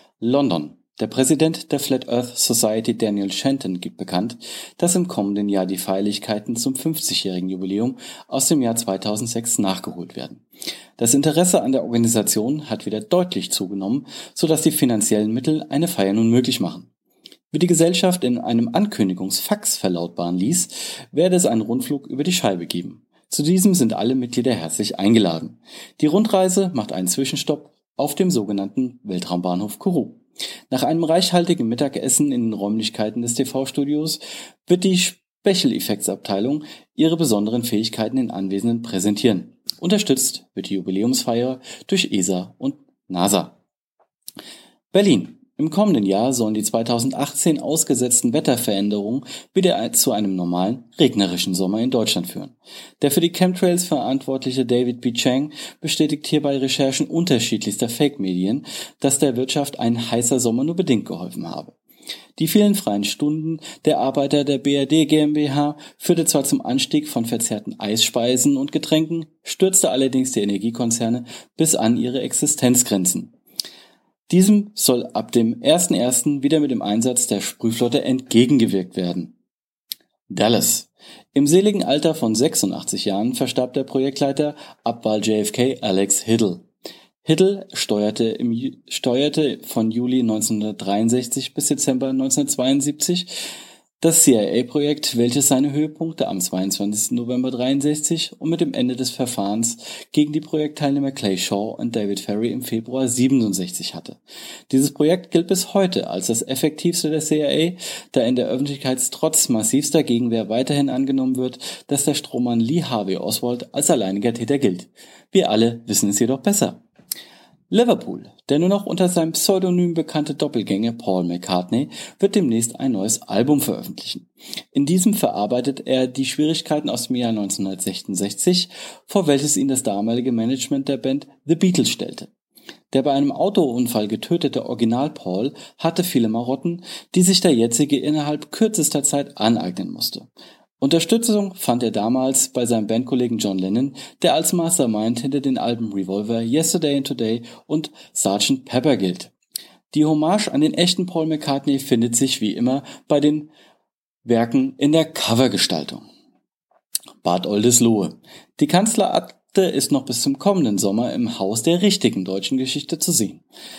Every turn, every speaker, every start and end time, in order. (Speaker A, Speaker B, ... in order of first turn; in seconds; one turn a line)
Speaker A: 0.2-10.4
Speaker A: 11.0-16.9
Speaker A: 17.5-43.6
Speaker A: 44.9-61.7
Speaker A: 62.4-73.3
Speaker A: 74.3-79.3
Speaker A: 80.3-86.7
Speaker A: 87.2-93.3
Speaker A: 94.0-104.2
Speaker A: 104.7-116.8
Speaker A: 117.7-132.3
Speaker A: 132.9-140.3
Speaker A: 140.8-149.3
Speaker A: 149.9-153.5
Speaker A: 154.2-156.1
Speaker A: 157.2-163.4